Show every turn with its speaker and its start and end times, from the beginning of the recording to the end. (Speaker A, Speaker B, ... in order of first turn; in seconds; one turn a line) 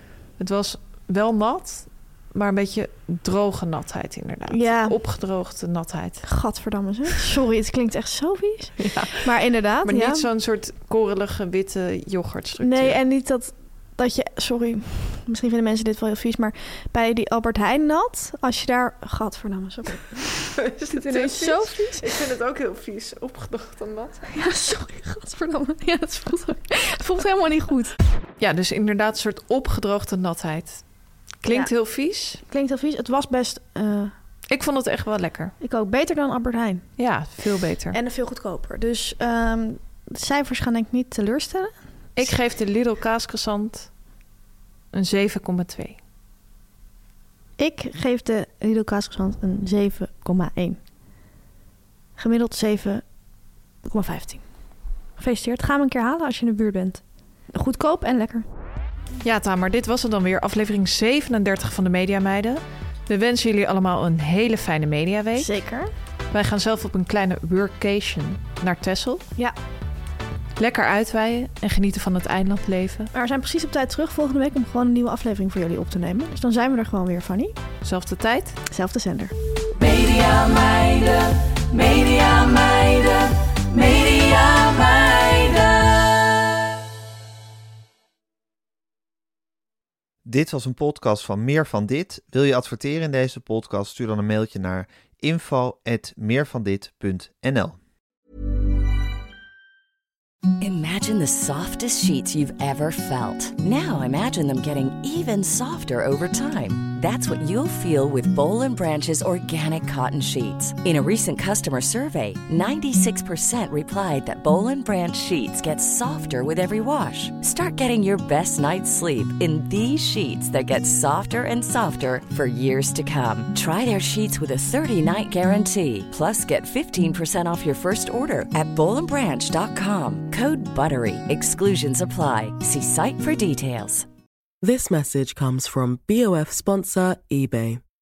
Speaker A: 0.4-6.3
Speaker B: 4.5-5.0
Speaker B: 6.2-10.3
Speaker A: 8.8-9.3
Speaker A: 9.8-13.0
Speaker B: 12.6-20.3
Speaker A: 20.4-24.3
Speaker B: 20.9-22.0
Speaker B: 24.3-27.9
Speaker A: 28.4-30.8
Speaker A: 31.4-32.4
Speaker B: 32.4-34.1
Speaker A: 34.5-35.5
Speaker B: 35.6-36.8
Speaker A: 37.0-38.0
Speaker B: 37.9-42.3
Speaker A: 42.2-43.9
Speaker A: 44.9-46.0
Speaker B: 47.6-50.8
Speaker B: 52.2-53.0
Speaker B: 53.9-54.4
Speaker B: 55.2-57.0
Speaker B: 57.5-58.5
Speaker A: 59.2-65.5
Speaker B: 65.4-65.9
Speaker A: 66.3-69.2
Speaker A: 70.6-73.1
Speaker B: 73.1-77.5
Speaker A: 77.8-78.6
Speaker B: 78.7-79.3
Speaker C: 79.8-86.4
Speaker D: 90.3-97.8
Speaker E: 100.6-134.1
Speaker F: 134.6-137.8